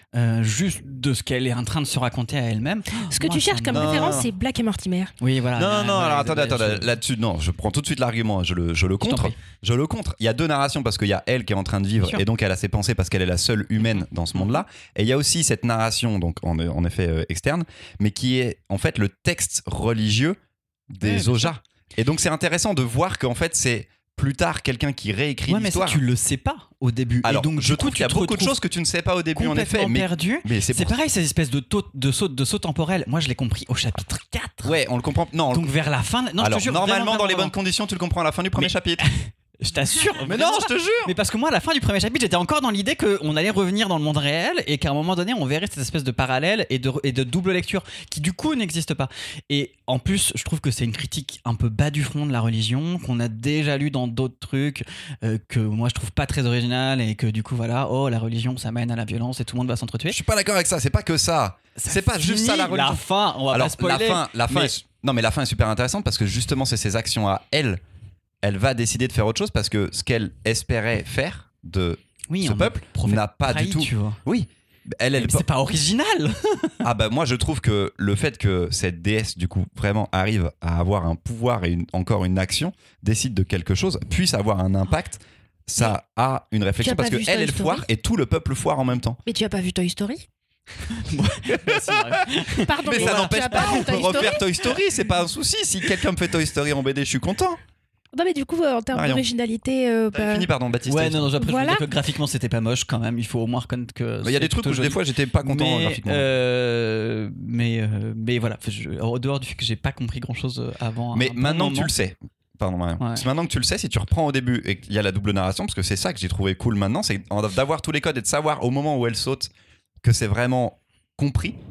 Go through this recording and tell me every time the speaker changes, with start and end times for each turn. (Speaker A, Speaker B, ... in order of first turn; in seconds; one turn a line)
Speaker A: 0.1-4.2
Speaker B: 3.1-5.1
Speaker C: 3.7-4.3
Speaker A: 5.2-6.9
Speaker C: 5.5-20.4
Speaker A: 9.0-9.3
Speaker C: 20.9-26.0
Speaker A: 21.0-21.5
Speaker A: 25.5-28.5
Speaker C: 27.2-31.0
Speaker A: 29.3-34.8
Speaker C: 34.6-35.7
Speaker A: 35.5-37.5
Speaker C: 36.4-39.1
Speaker A: 38.6-60.2
Speaker C: 40.2-41.1
Speaker C: 60.1-67.8
Speaker A: 61.8-64.8
Speaker C: 68.4-75.5
Speaker A: 72.3-74.2
Speaker A: 75.2-76.8
Speaker C: 76.8-89.2
Speaker B: 86.8-87.8
Speaker B: 89.2-90.2
Speaker A: 91.0-94.4
Speaker C: 91.5-97.6
Speaker B: 92.6-94.4
Speaker B: 98.1-100.5
Speaker C: 98.9-99.2
Speaker C: 100.1-101.4
Speaker A: 100.9-111.9
Speaker B: 101.4-101.8
Speaker C: 104.2-106.3
Speaker C: 111.1-119.5
Speaker A: 113.0-113.2
Speaker C: 120.0-121.6